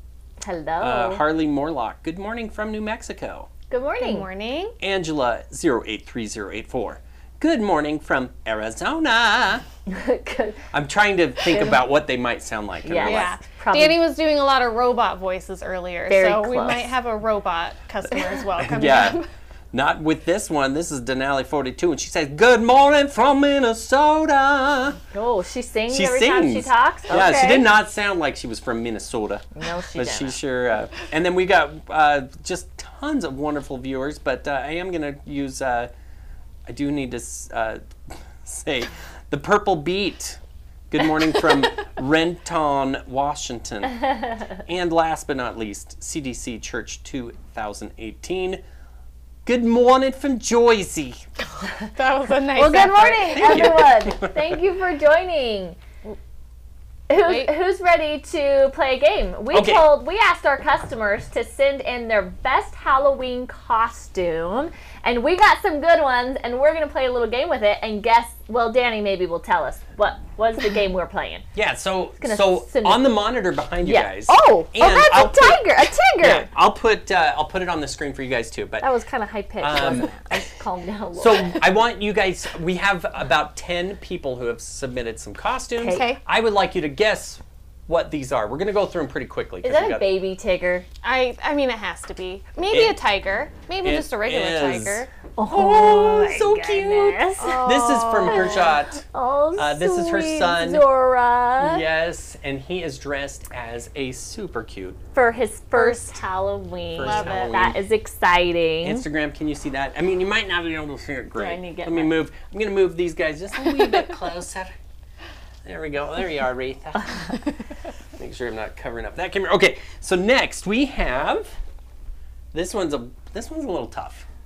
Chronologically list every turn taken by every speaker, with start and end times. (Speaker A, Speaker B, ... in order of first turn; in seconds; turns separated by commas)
Speaker A: 0.4-1.2, Speaker B: 0.8-3.5, Speaker A: 3.7-4.3, Speaker C: 4.0-4.7, Speaker B: 4.8-9.6, Speaker A: 9.9-10.6, Speaker B: 10.7-13.3, Speaker A: 11.4-11.8, Speaker A: 12.8-14.0, Speaker C: 13.0-19.3, Speaker A: 16.1-16.9, Speaker B: 18.6-19.2, Speaker B: 19.7-25.0, Speaker A: 25.1-27.6, Speaker B: 25.9-35.9, Speaker C: 27.1-27.6, Speaker A: 29.6-30.4, Speaker B: 36.7-40.4, Speaker B: 40.9-48.6, Speaker B: 49.4-51.2, Speaker C: 51.8-53.7, Speaker A: 52.5-55.8, Speaker B: 53.3-54.4, Speaker A: 57.1-71.5, Speaker C: 57.2-57.5, Speaker B: 59.5-60.0, Speaker B: 71.5-78.9, Speaker A: 72.2-73.2, Speaker A: 73.8-76.5, Speaker A: 78.8-81.6, Speaker B: 79.6-80.2, Speaker B: 81.2-90.1, Speaker A: 85.8-86.1, Speaker C: 85.9-86.2, Speaker A: 89.6-90.8, Speaker C: 91.0-95.1, Speaker B: 92.7-93.0, Speaker B: 93.8-99.0, Speaker A: 95.4-97.6, Speaker C: 97.4-98.7, Speaker A: 98.3-101.8, Speaker B: 99.5-100.9, Speaker B: 101.6-105.0, Speaker A: 105.1-109.0, Speaker C: 105.7-106.2, Speaker B: 106.9-107.8, Speaker C: 107.0-107.7, Speaker B: 108.8-114.7, Speaker A: 111.3-112.2, Speaker B: 115.6-117.4, Speaker B: 118.2-121.6, Speaker B: 122.5-124.3